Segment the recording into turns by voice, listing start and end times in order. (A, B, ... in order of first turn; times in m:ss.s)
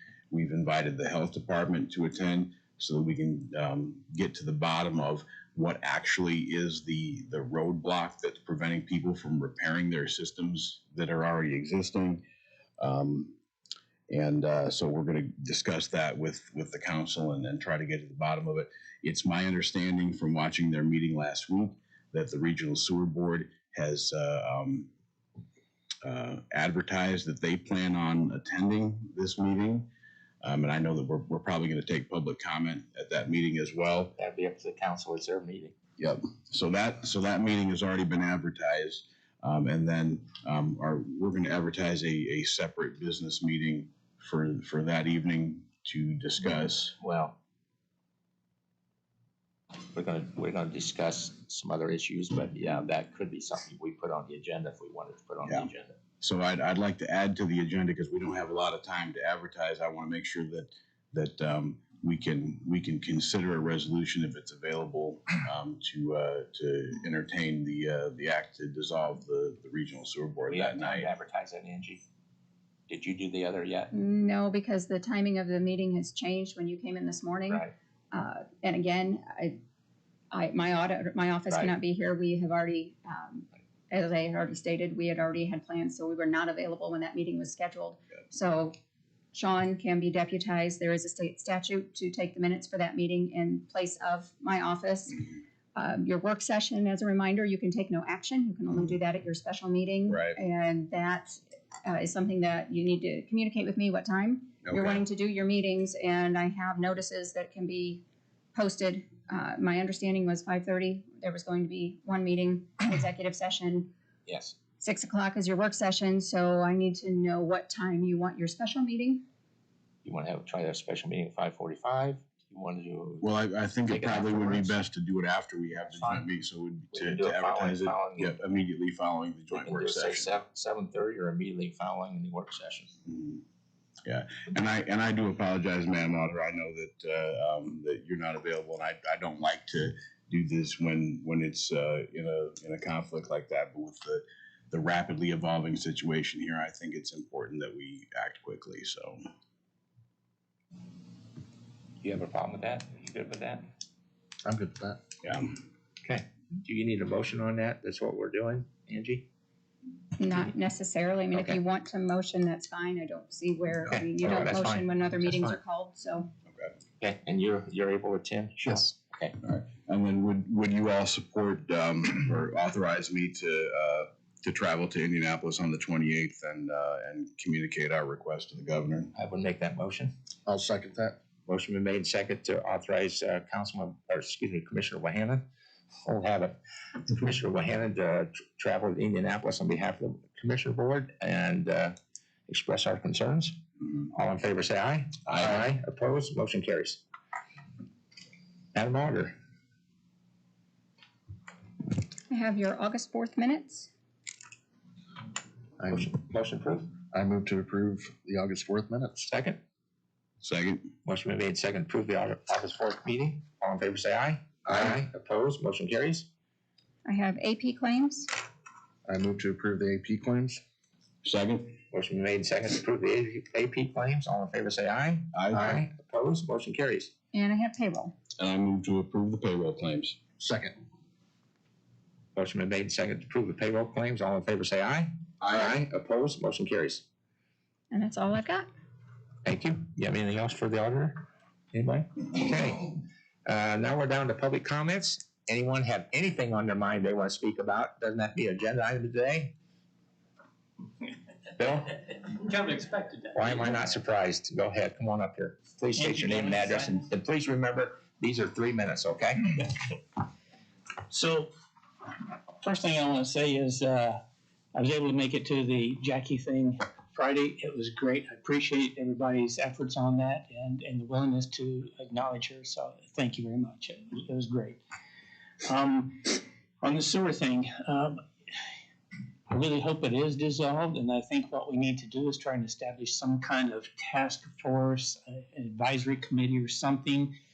0:00.3-0:12.2 A
0:12.8-0:13.4 A
0:14.1-0:24.9 A
0:26.0-0:29.8 A
0:30.4-0:34.1 A
0:34.2-0:35.7 B
0:36.0-0:47.0 A
0:47.0-0:47.4 B
0:49.9-0:56.0 B
0:56.2-1:11.1 A
1:10.5-1:12.0 B
1:12.9-1:13.9 B
1:13.9-1:19.6 C
1:20.3-1:28.7 C
1:21.5-1:21.7 B
1:29.3-1:35.2 C
1:35.7-1:48.0 C
1:40.1-1:40.4 A
1:44.6-1:45.0 A
1:48.5-1:53.9 C
1:54.3-1:54.6 B
1:54.8-1:59.2 C
2:00.0-2:03.3 B
2:03.2-2:10.3 A
2:03.8-2:04.8 B
2:05.7-2:06.2 B
2:06.9-2:08.4 B
2:09.5-2:12.9 B
2:13.1-2:13.4 A
2:14.0-2:29.2 A
2:32.0-2:33.7 B
2:34.4-2:35.0 D
2:35.2-2:35.5 A
2:36.0-2:39.2 B
2:40.2-2:46.3 C
2:41.3-2:41.6 B
2:43.8-2:45.6 B
2:47.0-2:49.3 B
2:49.4-2:59.1 A
2:59.1-3:00.1 B
3:00.4-3:01.2 D
3:01.4-3:05.4 B
3:06.0-3:06.5 B
3:07.1-3:11.9 B
3:12.5-3:13.5 B
3:14.1-3:17.0 B
3:18.7-3:19.3 B
3:22.3-3:23.9 C
3:25.8-3:26.0 D
3:25.9-3:26.9 B
3:27.1-3:29.3 D
3:29.2-3:29.6 B
3:30.4-3:30.9 A
3:31.0-3:36.3 B
3:34.6-3:35.0 D
3:37.0-3:38.3 C
3:39.0-3:40.6 D
3:41.2-3:41.8 A
3:41.9-3:47.1 B
3:45.3-3:45.8 A
3:47.3-3:48.1 C
3:48.4-3:50.2 A
3:50.4-3:50.8 D
3:52.4-3:57.0 B
3:55.4-3:55.8 A
3:57.9-3:58.7 C
3:59.4-4:01.2 B
4:01.7-4:09.5 B
4:11.6-4:12.0 B
4:12.3-4:13.8 E
4:13.3-4:19.6 B
4:15.9-4:17.1 E
4:21.1-4:21.5 E
4:22.6-4:24.2 E
4:24.7-4:34.8 E
4:35.6-4:38.2 E
4:39.5-4:47.3 E